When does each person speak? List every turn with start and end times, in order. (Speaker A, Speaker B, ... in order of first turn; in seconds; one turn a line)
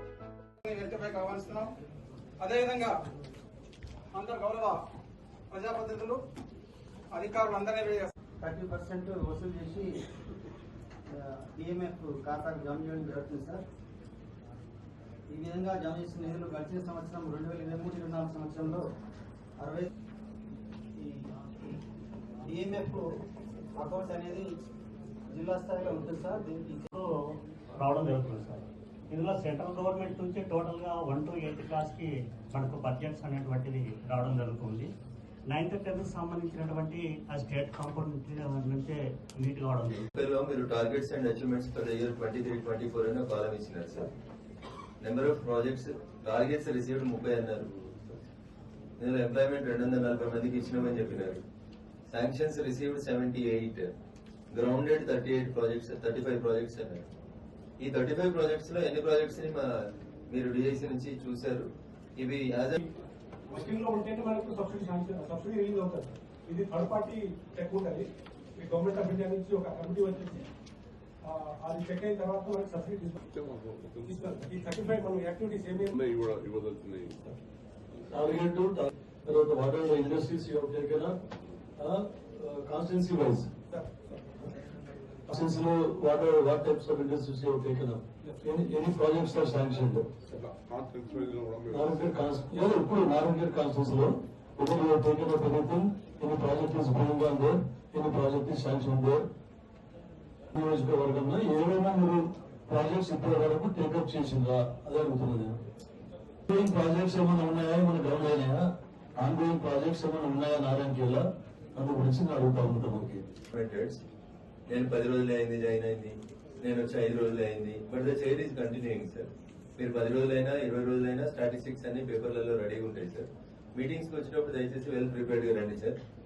Speaker A: 0.7-1.6
Speaker A: 2.5-2.9
Speaker A: 4.2-4.8
Speaker A: 5.5-6.2
Speaker A: 7.2-8.1
Speaker B: 8.4-10.0
Speaker B: 11.1-13.6
Speaker B: 15.3-18.9
Speaker B: 19.6-19.9
Speaker B: 20.9-21.3
Speaker B: 22.4-23.2
Speaker B: 23.8-24.5
Speaker B: 25.3-26.9
Speaker C: 27.8-34.9
Speaker C: 35.5-40.1
Speaker D: 40.2-44.1
Speaker D: 45.0-47.7
Speaker D: 49.0-51.4
Speaker D: 52.1-53.9
Speaker D: 54.5-57.0
Speaker D: 57.8-59.6
Speaker D: 60.3-61.7
Speaker D: 62.2-62.8
Speaker E: 63.5-68.1
Speaker E: 68.6-70.5
Speaker E: 71.2-73.2
Speaker F: 73.3-74.2
Speaker E: 74.0-75.9
Speaker F: 75.9-77.3
Speaker G: 78.1-81.2
Speaker G: 81.8-83.5
Speaker E: 83.7-84.5
Speaker G: 85.3-90.1
Speaker F: 90.3-92.2
Speaker G: 91.7-99.3
Speaker G: 100.5-105.6
Speaker G: 106.5-113.2
Speaker D: 113.5-114.0
Speaker D: 114.7-126.0